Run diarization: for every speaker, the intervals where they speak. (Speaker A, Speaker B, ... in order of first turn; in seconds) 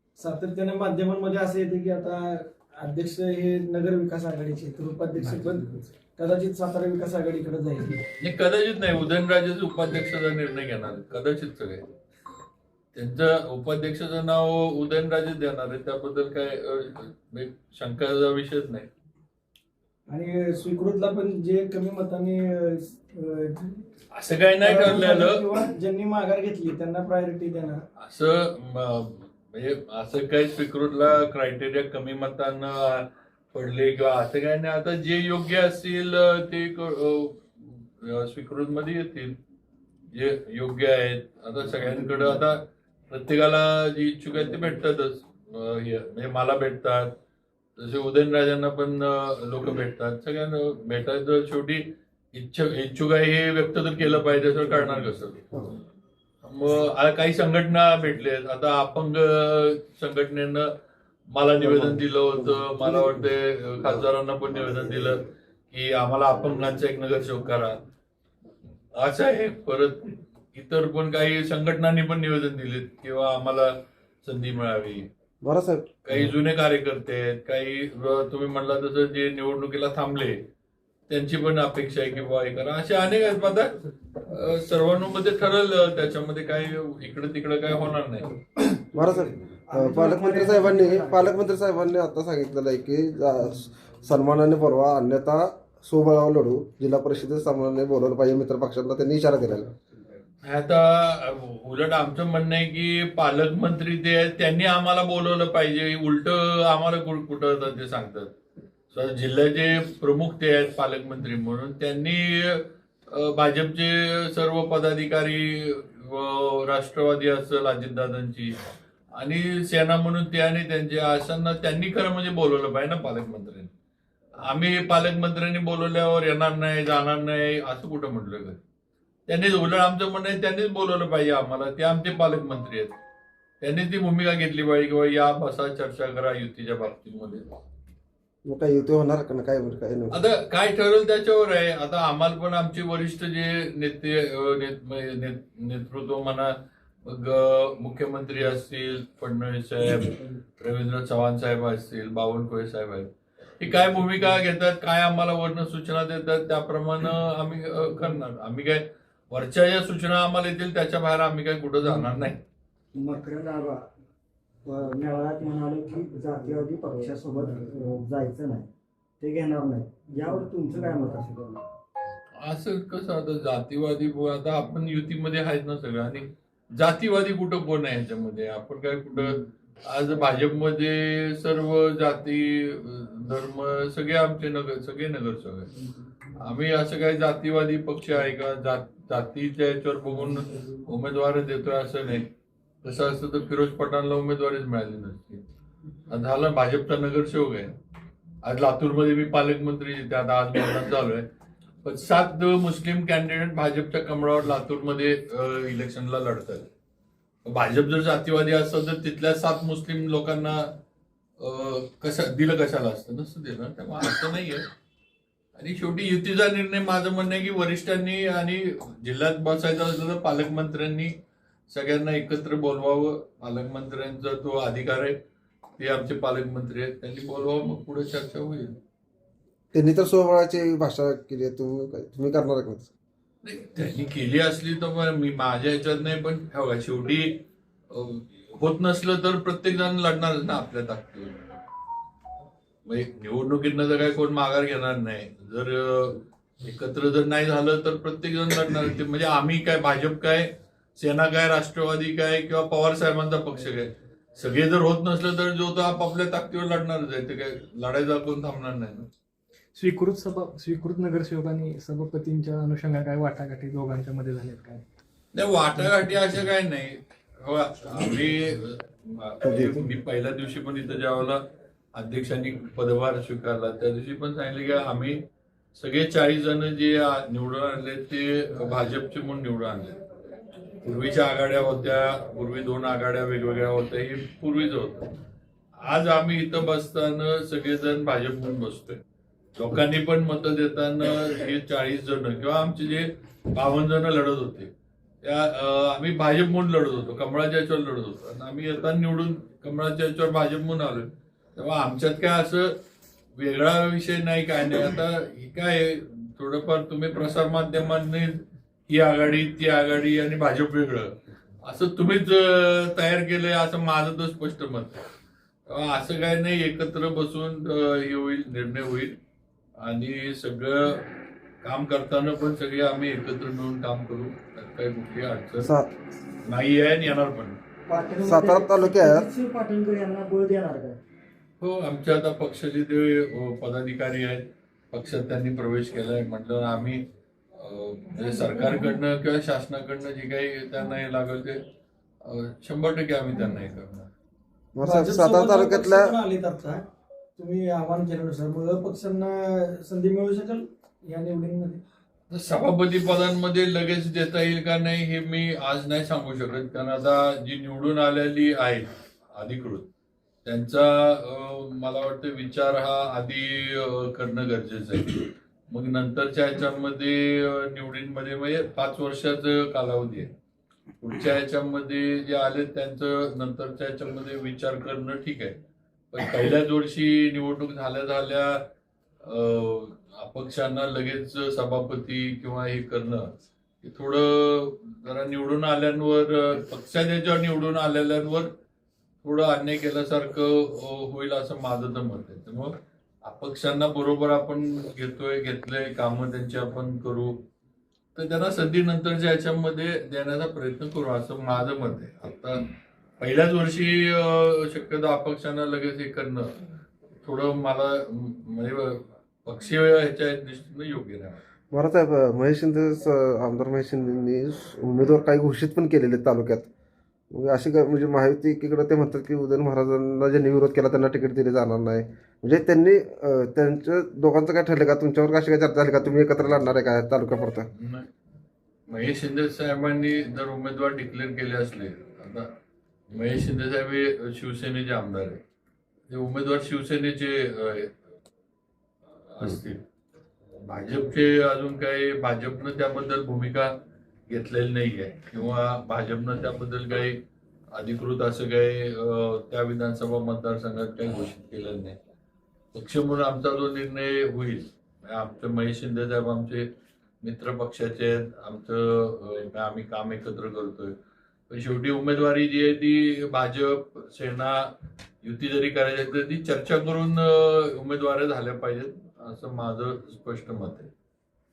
Speaker A: 0.2-8.0, 20.1-23.8, 24.6-27.8, 344.8-346.8, 347.4-351.8
Speaker B: 8.2-11.8, 12.9-18.9, 24.1-25.4, 28.0-39.4, 40.1-47.1, 47.8-55.5, 56.4-60.7, 61.3-67.8, 69.0-75.1, 76.1-80.4, 81.1-88.4, 100.5-108.3, 108.9-118.5, 119.2-123.7, 124.5-128.6, 129.3-132.9, 133.6-137.4, 140.1-162.4, 172.4-185.7, 186.3-192.3, 192.8-195.4, 196.1-197.7, 198.4-201.2, 201.8-206.7, 207.5-210.7, 211.4-214.7, 215.6-221.1, 221.7-225.2, 225.8-228.8, 233.4-241.3, 242.9-259.1, 265.3-271.4, 271.9-275.2, 275.8-280.0, 280.8-285.1, 285.8-289.0, 289.6-294.7, 295.2-302.8, 303.4-311.1, 311.6-315.0, 315.7-319.2, 319.8-321.0, 321.6-325.8, 326.4-327.6, 331.6-337.0, 337.6-341.6, 342.2-344.1, 352.3-359.9, 360.4-370.3, 371.0-375.6, 376.1-378.6, 379.2-383.3, 383.8-388.5, 389.2-397.4, 398.1-402.6, 403.2-406.5, 407.2-411.4, 427.7-428.1, 428.9-432.5, 433.1-435.4, 436.1-437.9, 439.3-439.8, 440.7-443.7, 444.3-447.2, 447.8-452.0, 452.7-456.7, 457.2-460.9, 461.5-464.7, 465.2-470.9
Speaker C: 61.6-63.3, 75.4-76.3, 88.9-99.7, 138.5-140.2, 229.7-232.9, 269.4-269.8, 325.6-325.9, 328.2-329.3, 344.8-346.1, 411.7-416.7, 417.3-427.7
Speaker D: 89.7-91.3, 162.9-163.8, 164.7-168.7, 169.2-171.7, 327.9-331.0
Speaker E: 259.8-264.8